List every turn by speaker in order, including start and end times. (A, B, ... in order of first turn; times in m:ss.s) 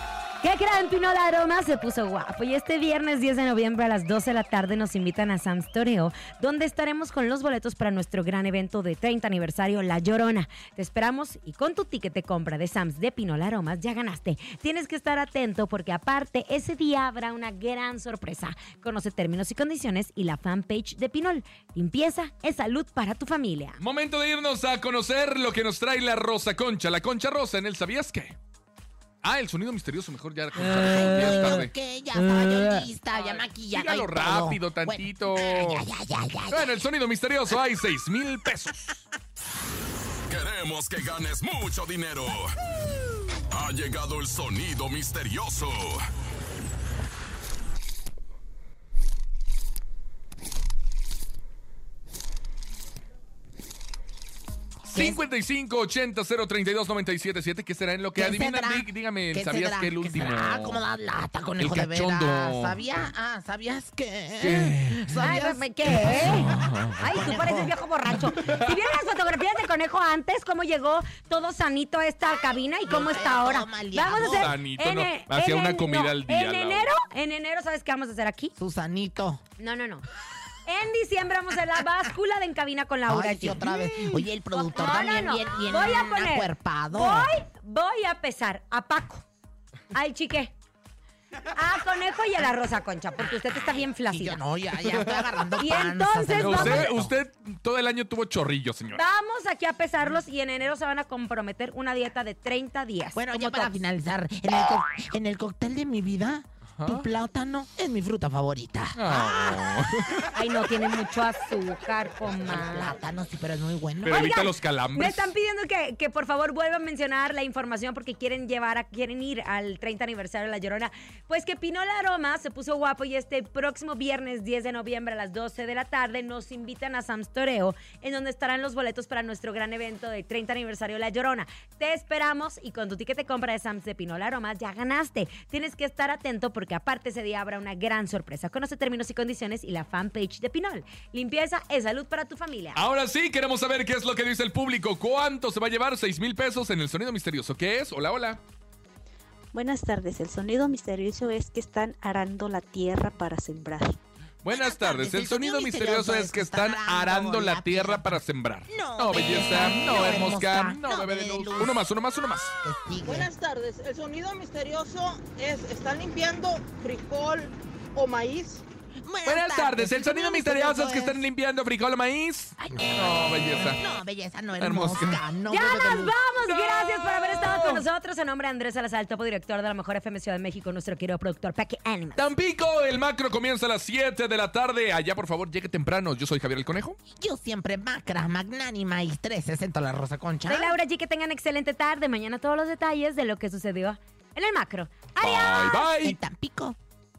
0:00.4-0:23.8 A
0:23.8-0:28.4 B
0:29.2-0:31.7 B
0:30.6-0:36.8 C
0:33.7-0:35.9 B
0:36.5-0:39.0 B
0:40.3-0:42.6 D
0:43.5-0:46.1 D
0:54.9-1:00.8 B
0:54.9-0:55.2 C
0:58.2-1:07.8 C
1:01.6-1:02.8 B
1:04.4-1:05.1 B
1:05.2-1:18.5 A
1:06.0-1:07.0 B
1:12.9-1:14.5 C
1:14.1-1:16.9 B
1:18.6-1:19.4 C
1:19.6-1:20.0 A
1:20.7-1:29.2 A
1:23.1-1:27.3 C
1:29.9-1:30.5 A
1:31.5-1:34.4 A
1:33.2-1:37.2 C
1:34.9-1:35.2 B
1:35.6-1:36.9 A
1:36.4-1:39.0 B
1:39.0-1:43.8 A
1:43.2-1:49.6 C
1:46.8-1:47.1 B
1:49.0-1:50.3 B
1:50.4-1:52.9 A
1:52.4-1:54.3 C
1:54.0-1:55.3 B
1:54.1-2:22.8 A
2:22.8-2:28.4 B
2:29.5-2:34.0 E
2:34.4-2:42.6 B
2:34.5-2:41.8 C
2:42.6-2:43.3 C
2:43.0-2:48.6 F
2:49.0-2:51.2 C
2:49.3-2:53.8 B
2:52.6-2:56.1 C
2:54.6-2:55.2 B
2:55.5-3:02.3 A
2:56.5-2:57.8 B
3:02.2-3:07.0 B
3:07.1-3:10.8 C
3:10.5-3:15.9 A
3:15.2-3:16.2 B
3:16.0-3:16.8 C